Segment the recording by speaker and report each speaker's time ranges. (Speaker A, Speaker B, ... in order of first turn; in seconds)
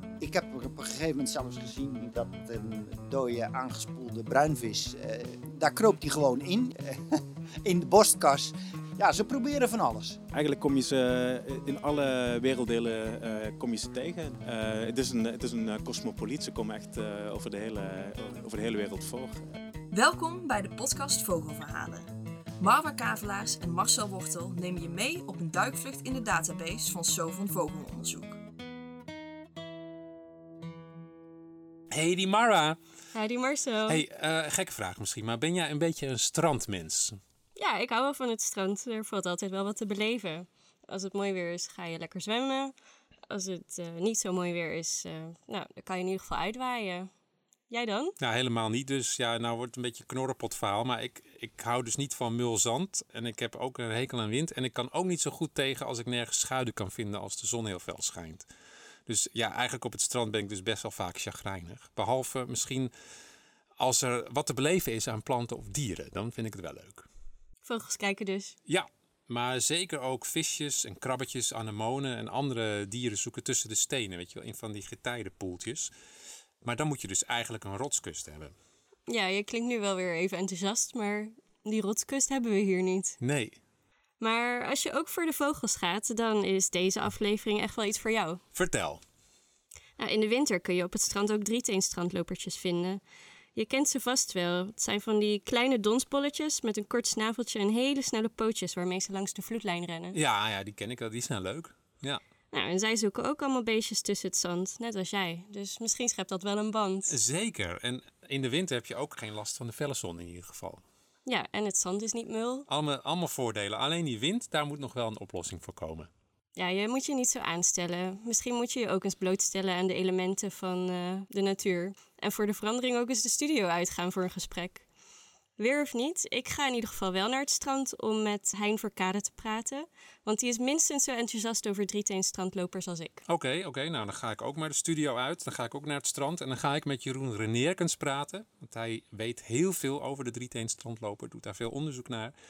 Speaker A: 0.2-10.2
Speaker B: 10.3-19.6
Speaker C: 19.9-22.1, 22.6-28.4
Speaker D: 31.9-32.8, 33.9-37.2, 48.2-58.5, 59.1-62.9, 63.8-67.1, 68.7-75.9, 76.6-78.6, 83.2-83.6, 88.5-89.0, 100.1-102.2, 107.1-110.8, 112.7-116.1, 133.3-142.3
Speaker E: 33.1-34.0, 37.6-42.7, 43.3-47.1, 47.7-48.1, 67.7-68.6, 79.1-83.2, 84.2-88.4, 90.0-93.0, 93.5-100.2, 102.5-107.1, 111.3-112.7, 116.6-124.8, 125.6-133.2